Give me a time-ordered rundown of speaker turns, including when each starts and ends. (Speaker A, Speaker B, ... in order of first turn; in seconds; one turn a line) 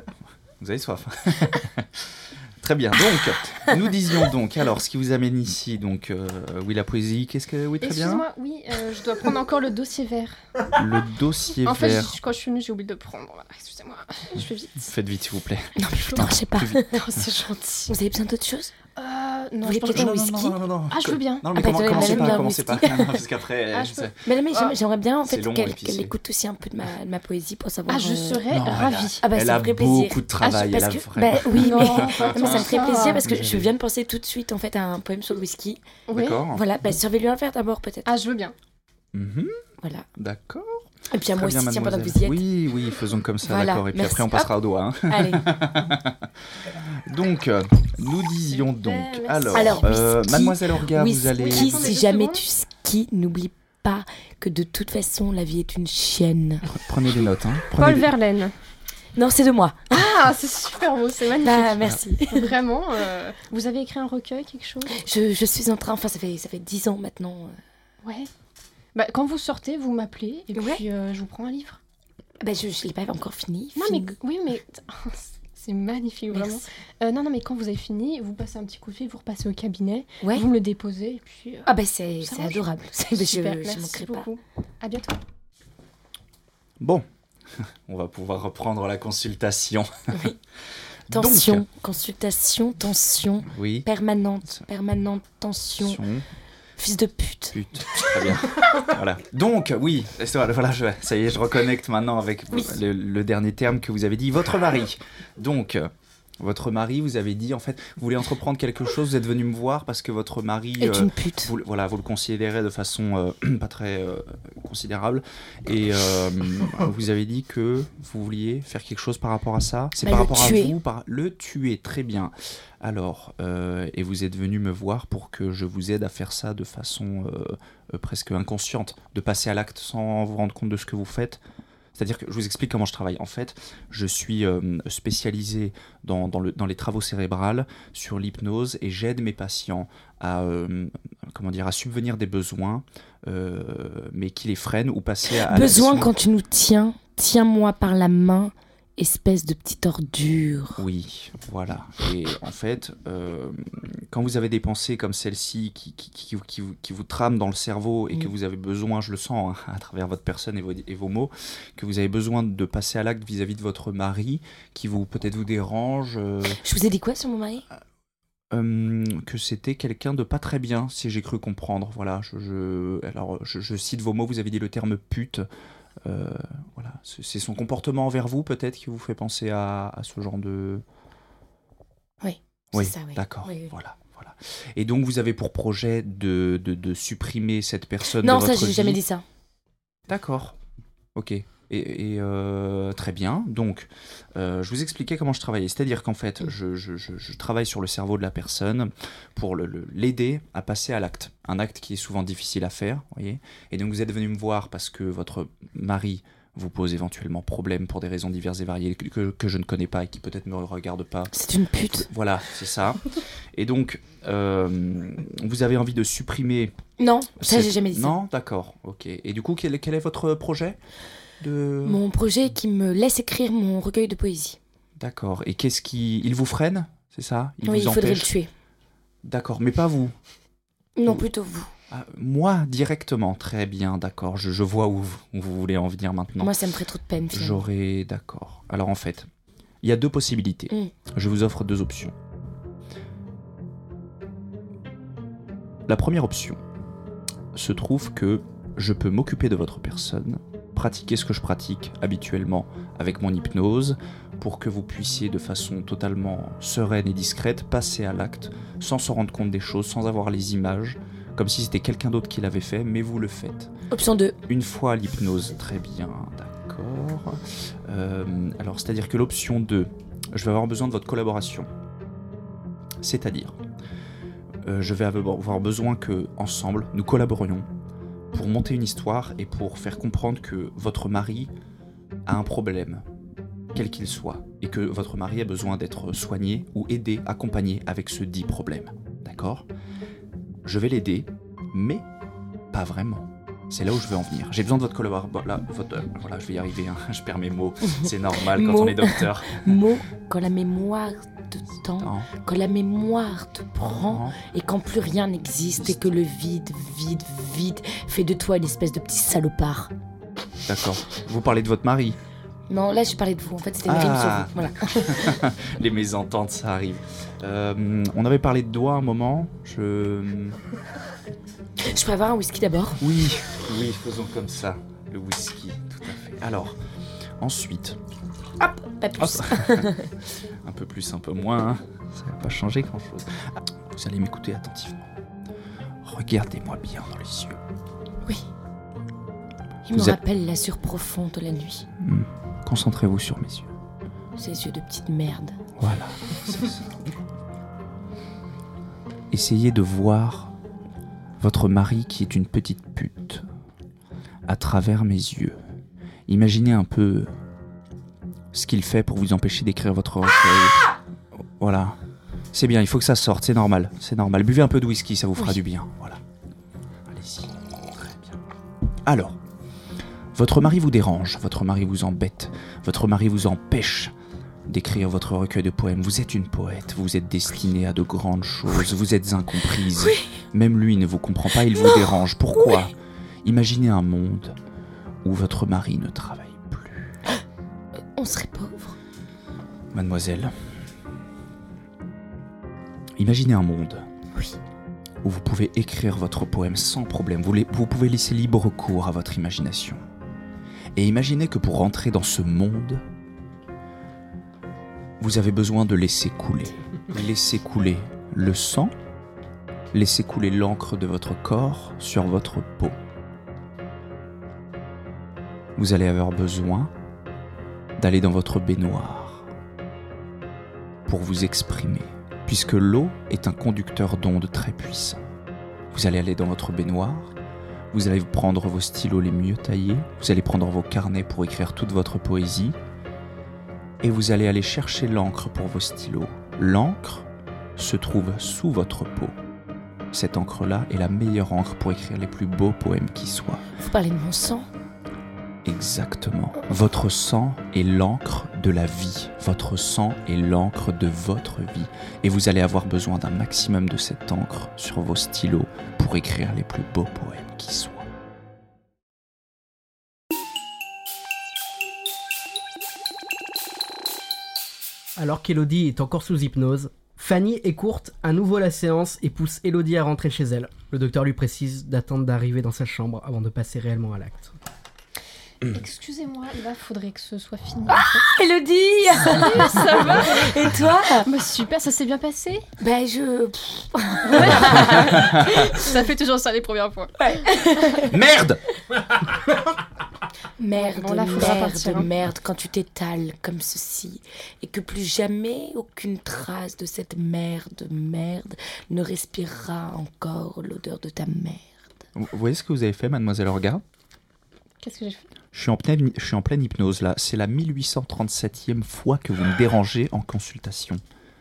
Speaker A: 0.6-8.3
Speaker B: 7.8-10.4
Speaker A: 10.7-12.2
Speaker B: 11.7-14.9
Speaker A: 14.8-16.8
Speaker C: 15.8-17.0
Speaker B: 16.9-17.9
Speaker C: 17.9-18.7
Speaker B: 18.9-22.5
Speaker C: 19.6-20.6
Speaker A: 19.9-24.2
Speaker C: 21.5-23.2
Speaker B: 23.7-24.7
Speaker C: 24.2-28.5
Speaker A: 25.2-26.1
Speaker B: 27.9-29.2
Speaker A: 28.5-33.7
Speaker C: 29.2-35.8
Speaker B: 31.5-33.3
Speaker B: 36.1-36.5
Speaker A: 36.1-36.6
Speaker C: 36.5-38.1
Speaker B: 38.1-38.5
Speaker A: 39.1-39.6
Speaker A: 40.2-51.9
Speaker C: 41.1-42.4
Speaker C: 43.5-44.5
Speaker C: 45.1-45.5
Speaker B: 48.5-49.9
Speaker C: 49.5-56.7
Speaker B: 51.4-52.4
Speaker A: 56.7-58.1
Speaker B: 57.8-58.5
Speaker C: 59.2-59.9
Speaker B: 59.9-65.0
Speaker C: 61.4-62.5
Speaker C: 64.9-67.6
Speaker B: 68.0-68.3
Speaker B: 68.9-71.8
Speaker C: 70.5-70.8
Speaker C: 72.4-74.2
Speaker B: 73.8-85.2
Speaker C: 76.3-76.6
Speaker C: 80.2-80.5
Speaker C: 81.7-84.3
Speaker A: 86.8-87.0
Speaker A: 87.6-90.3
Speaker A: 91.1-91.7
Speaker C: 91.1-96.0
Speaker A: 93.5-93.9
Speaker A: 95.8-96.2
Speaker C: 96.8-97.6
Speaker A: 97.5-131.4
Speaker C: 110.8-111.5
Speaker C: 120.0-120.7
Speaker A: 131.9-146.1
Speaker C: 145.3-150.8
Speaker A: 150.8-166.6
Speaker C: 166.5-167.7
Speaker A: 168.5-175.4
Speaker A: 176.1-180.8
Speaker C: 182.2-183.7
Speaker A: 182.7-189.0
Speaker C: 188.1-189.2
Speaker A: 190.1-190.6
Speaker A: 191.2-211.3
Speaker C: 211.3-212.1
Speaker A: 212.0-216.8
Speaker C: 217.0-218.1
Speaker A: 217.4-220.8
Speaker A: 221.4-222.0
Speaker C: 221.8-224.6
Speaker A: 225.0-228.3
Speaker C: 227.6-228.5
Speaker A: 229.2-230.1
Speaker C: 231.0-231.7
Speaker A: 231.9-236.6
Speaker C: 236.4-237.6
Speaker A: 237.3-239.3
Speaker A: 239.8-242.1
Speaker A: 245.9-246.6
Speaker A: 247.5-263.7
Speaker C: 263.9-264.4
Speaker A: 264.5-271.7
Speaker A: 273.0-273.6
Speaker A: 274.6-277.7
Speaker A: 278.3-281.5
Speaker A: 282.3-283.0
Speaker A: 283.7-289.7
Speaker A: 290.6-292.1
Speaker A: 292.7-299.8
Speaker C: 297.9-309.9
Speaker A: 302.0-302.3
Speaker A: 304.1-304.4
Speaker A: 305.8-306.2
Speaker A: 310.7-312.2
Speaker C: 312.7-315.4
Speaker A: 313.9-320.6
Speaker C: 321.8-323.0
Speaker A: 323.0-326.8
Speaker A: 327.4-328.0
Speaker C: 328.6-330.1
Speaker A: 329.2-329.9
Speaker A: 330.6-335.1
Speaker A: 336.0-337.6
Speaker C: 339.9-341.9
Speaker A: 342.0-343.7
Speaker C: 344.4-345.6
Speaker A: 345.8-347.1
Speaker A: 349.3-350.5
Speaker A: 351.4-353.4
Speaker A: 354.5-355.6
Speaker A: 356.3-357.3
Speaker A: 358.5-360.9
Speaker A: 361.4-362.0
Speaker A: 362.5-366.2
Speaker A: 367.1-368.4
Speaker A: 369.1-369.4
Speaker A: 370.3-374.1
Speaker A: 374.7-384.6
Speaker C: 380.0-380.3
Speaker A: 385.2-387.2
Speaker C: 388.2-389.0
Speaker A: 389.9-390.5
Speaker A: 393.2-394.1
Speaker A: 395.2-400.0
Speaker A: 400.9-403.0
Speaker A: 405.2-408.9
Speaker A: 409.9-413.0
Speaker A: 415.8-416.9
Speaker A: 418.0-419.5
Speaker A: 421.1-425.2
Speaker A: 425.9-427.3
Speaker A: 427.9-432.8
Speaker A: 434.0-439.4
Speaker A: 440.1-443.6
Speaker C: 443.8-444.7
Speaker A: 445.6-458.1
Speaker D: 465.2-474.5
Speaker B: 475.7-478.2
Speaker C: 477.9-481.3
Speaker B: 479.1-480.7
Speaker B: 481.3-482.6
Speaker C: 482.8-486.0
Speaker B: 484.3-487.5
Speaker A: 484.4-485.6
Speaker C: 487.2-488.1
Speaker A: 488.1-488.6
Speaker C: 490.6-501.7
Speaker B: 490.8-492.1
Speaker A: 502.1-503.8
Speaker B: 504.8-505.3
Speaker A: 505.5-511.0